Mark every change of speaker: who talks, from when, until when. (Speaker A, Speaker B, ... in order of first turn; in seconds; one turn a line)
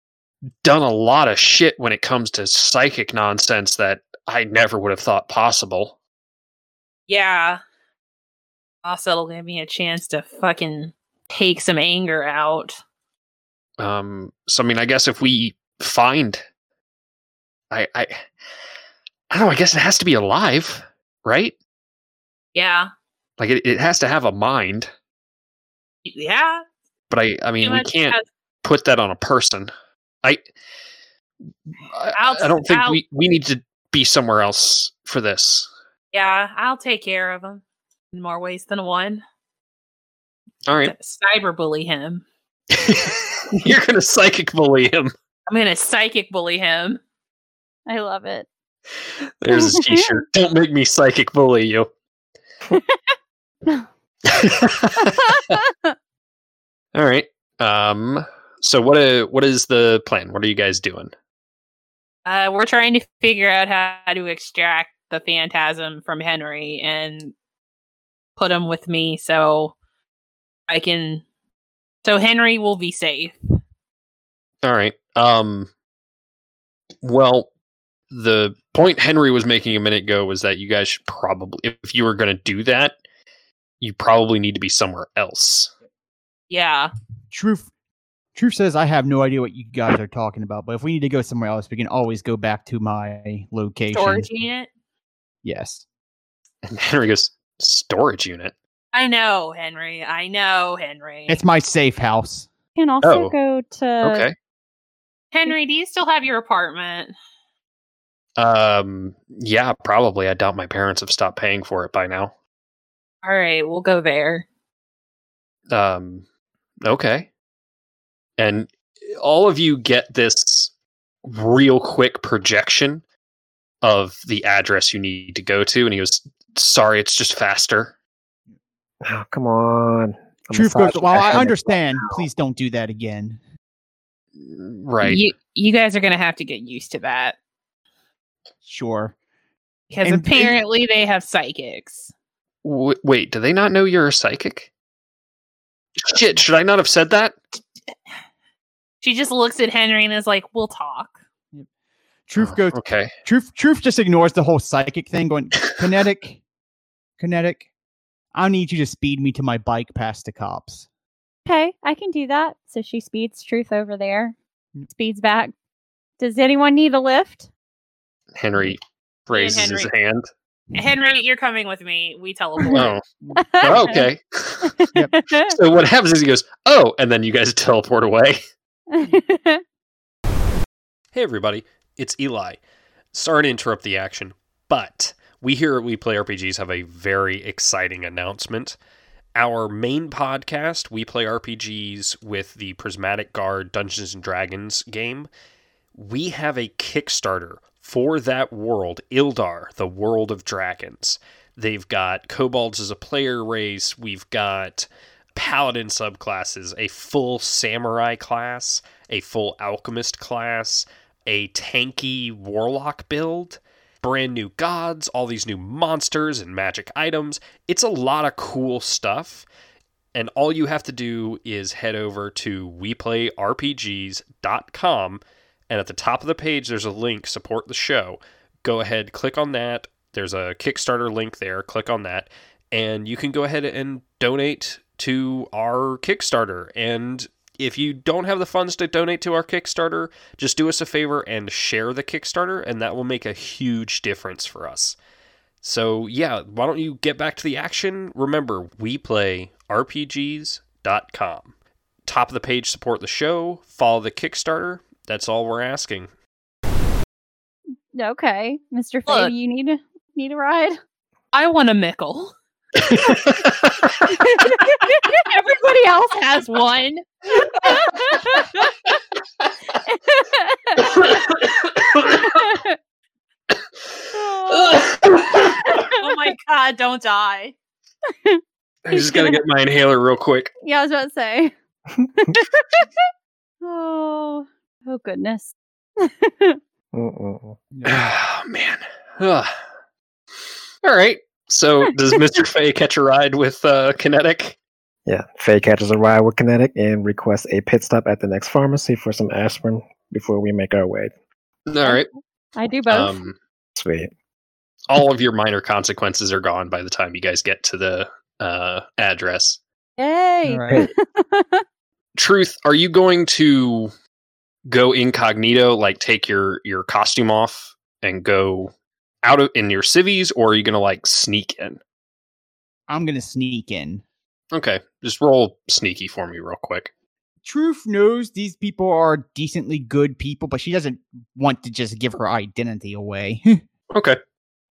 Speaker A: 0.6-6.0
Speaker B: 7.1-7.6
Speaker B: 8.8-12.8
Speaker A: 13.8-16.4
Speaker A: 17.7-18.2
Speaker A: 19.3-21.6
Speaker B: 22.5-22.9
Speaker A: 23.4-24.9
Speaker B: 26.1-26.6
Speaker A: 27.1-29.7
Speaker B: 27.6-28.2
Speaker A: 31.9-35.7
Speaker B: 32.1-33.0
Speaker B: 36.1-39.2
Speaker A: 40.7-40.9
Speaker B: 40.8-42.2
Speaker A: 42.7-45.1
Speaker B: 45.5-47.0
Speaker C: 47.9-48.5
Speaker A: 49.4-51.9
Speaker C: 49.5-50.1
Speaker A: 54.3-55.6
Speaker C: 55.0-55.9
Speaker A: 56.9-61.1
Speaker B: 62.3-67.3
Speaker B: 68.4-69.8
Speaker B: 70.7-71.2
Speaker B: 72.0-73.4
Speaker A: 74.6-75.7
Speaker A: 77.0-77.5
Speaker A: 78.1-82.9
Speaker A: 83.8-85.7
Speaker B: 86.5-86.9
Speaker D: 87.3-87.7
Speaker D: 88.3-94.3
Speaker B: 93.9-94.7
Speaker D: 95.4-95.8
Speaker A: 96.7-98.5
Speaker B: 98.9-101.4
Speaker D: 101.3-102.5
Speaker C: 102.8-104.3
Speaker A: 103.0-103.3
Speaker A: 104.0-104.3
Speaker B: 105.3-107.1
Speaker A: 108.4-112.3
Speaker B: 113.2-114.5
Speaker A: 115.7-116.2
Speaker A: 116.8-117.3
Speaker A: 118.4-120.7
Speaker A: 121.2-123.0
Speaker A: 123.8-128.0
Speaker E: 129.0-132.3
Speaker D: 130.5-133.4
Speaker A: 134.4-135.2
Speaker B: 135.0-137.4
Speaker D: 138.6-139.2
Speaker B: 139.9-142.1
Speaker D: 140.0-140.5
Speaker A: 142.6-144.7
Speaker A: 146.0-147.3
Speaker B: 149.0-151.2
Speaker D: 152.3-156.4
Speaker A: 152.4-153.1
Speaker D: 157.2-157.7
Speaker D: 158.3-160.9
Speaker C: 161.5-164.3
Speaker C: 164.9-165.5
Speaker C: 166.2-167.5
Speaker A: 168.4-170.3
Speaker B: 169.3-169.9
Speaker B: 170.7-172.9
Speaker C: 172.7-174.1
Speaker A: 172.7-173.0
Speaker D: 173.2-173.8
Speaker A: 173.6-174.8
Speaker C: 174.6-175.6
Speaker A: 175.5-178.4
Speaker C: 178.9-179.6
Speaker A: 181.1-182.6
Speaker A: 183.1-188.8
Speaker A: 189.3-195.3
Speaker A: 195.9-219.5
Speaker A: 220.1-245.0
Speaker A: 245.6-251.5
Speaker A: 252.1-256.1
Speaker C: 257.9-260.8
Speaker B: 259.1-259.3
Speaker B: 261.3-262.3
Speaker A: 262.8-263.9
Speaker C: 264.1-265.2
Speaker B: 265.3-267.1
Speaker C: 267.4-268.7
Speaker C: 269.9-270.9
Speaker A: 270.8-272.2
Speaker C: 272.1-272.8
Speaker C: 274.1-276.1
Speaker A: 274.7-275.5
Speaker B: 276.0-277.6
Speaker A: 278.9-280.5
Speaker C: 278.9-279.4
Speaker C: 280.6-281.5
Speaker C: 282.2-282.9
Speaker C: 283.6-286.6
Speaker E: 286.9-287.6
Speaker D: 287.7-288.0
Speaker A: 287.9-289.5
Speaker A: 290.8-294.6
Speaker E: 295.1-301.1
Speaker A: 301.7-302.1
Speaker C: 302.6-303.2
Speaker A: 302.9-303.4
Speaker E: 303.8-304.1
Speaker A: 304.9-309.6
Speaker C: 310.0-311.6
Speaker D: 310.4-310.8
Speaker A: 312.1-313.9
Speaker A: 314.7-321.8
Speaker D: 322.9-324.0
Speaker A: 324.5-326.9
Speaker D: 327.4-333.6
Speaker A: 333.9-334.2